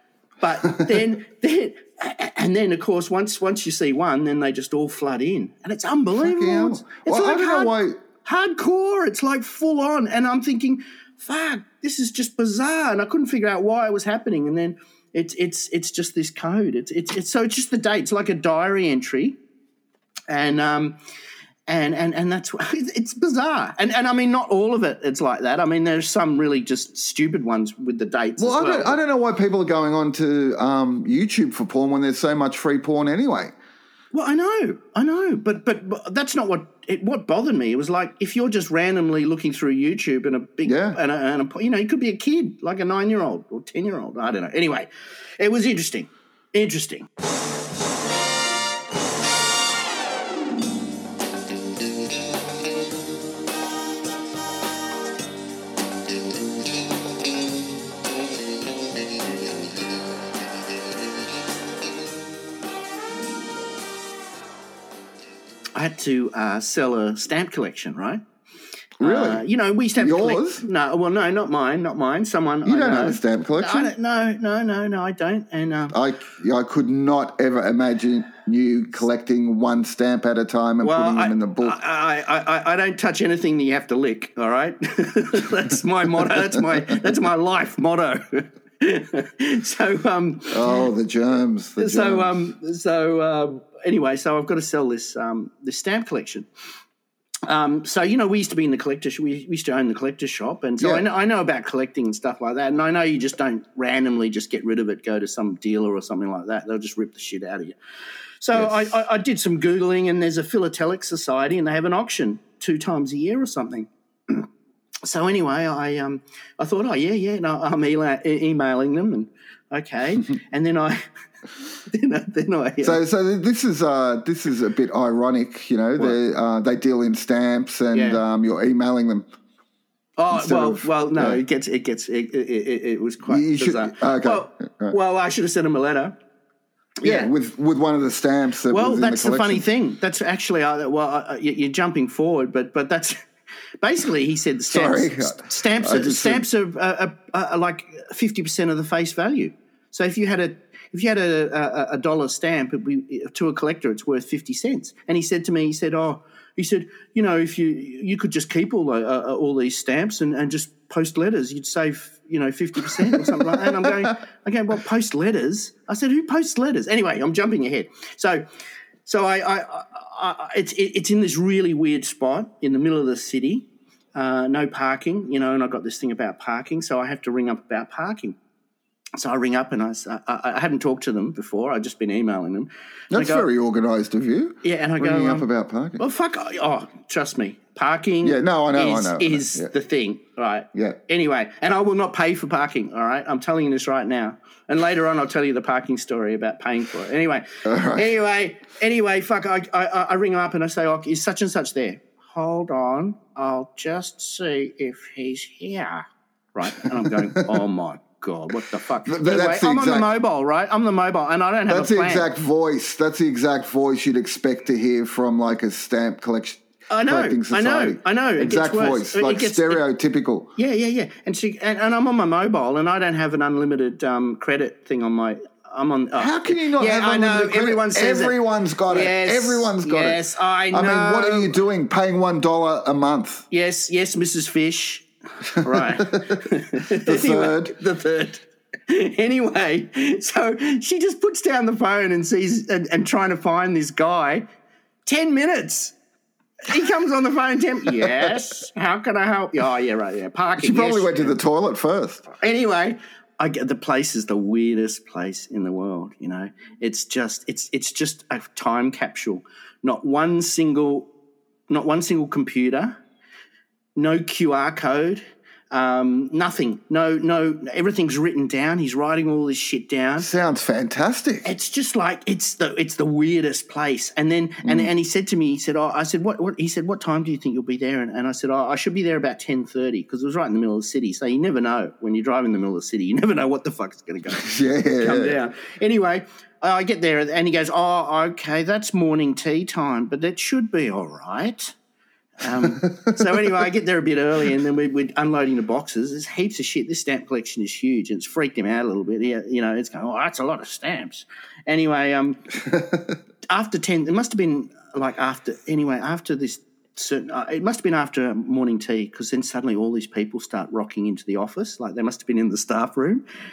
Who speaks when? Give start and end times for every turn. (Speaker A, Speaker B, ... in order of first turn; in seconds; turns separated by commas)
Speaker A: 0.4-19.4, Speaker B: 6.2-8.0, Speaker A: 20.3-21.0, Speaker A: 21.7-29.0, Speaker B: 28.4-33.5, Speaker A: 34.1-47.1, Speaker B: 40.6-41.0, Speaker A: 65.7-68.2, Speaker B: 69.0-69.4, Speaker A: 69.0-76.0, Speaker B: 70.0-70.6, Speaker B: 72.6-73.9, Speaker B: 75.9-81.8, Speaker A: 80.8-90.8, Speaker B: 90.5-92.3, Speaker A: 91.8-96.5, Speaker A: 97.5-107.8, Speaker B: 100.8-101.0, Speaker A: 108.4-114.5, Speaker B: 108.5-108.9, Speaker A: 115.0-121.0, Speaker A: 121.9-123.0, Speaker B: 122.8-129.3, Speaker A: 127.9-128.2, Speaker A: 130.2-136.2, Speaker B: 130.3-131.4, Speaker B: 133.3-134.9, Speaker A: 137.0-137.3, Speaker B: 137.0-139.6, Speaker A: 138.7-143.2, Speaker A: 143.8-168.4, Speaker B: 144.7-146.4, Speaker B: 163.0-164.1, Speaker A: 169.1-178.3, Speaker A: 179.2-183.4, Speaker B: 183.1-186.0, Speaker A: 184.6-185.5, Speaker A: 186.0-212.3, Speaker B: 188.2-189.7, Speaker B: 190.7-191.0, Speaker B: 197.6-198.1, Speaker B: 206.8-207.6, Speaker B: 209.0-210.1, Speaker B: 211.7-220.5, Speaker A: 216.9-219.8, Speaker A: 220.6-228.4, Speaker B: 226.2-233.4, Speaker A: 228.9-231.6, Speaker A: 233.5-244.5, Speaker B: 235.6-236.3, Speaker B: 236.9-237.7, Speaker A: 245.0-245.9, Speaker A: 246.6-251.3, Speaker B: 248.0-248.3, Speaker B: 250.6-252.2, Speaker A: 252.4-261.1, Speaker A: 261.7-263.0, Speaker A: 263.9-270.3, Speaker B: 270.2-271.5, Speaker A: 271.4-291.7, Speaker B: 274.6-274.9, Speaker B: 284.3-285.4, Speaker A: 292.4-302.4, Speaker B: 302.7-303.1, Speaker A: 303.5-313.2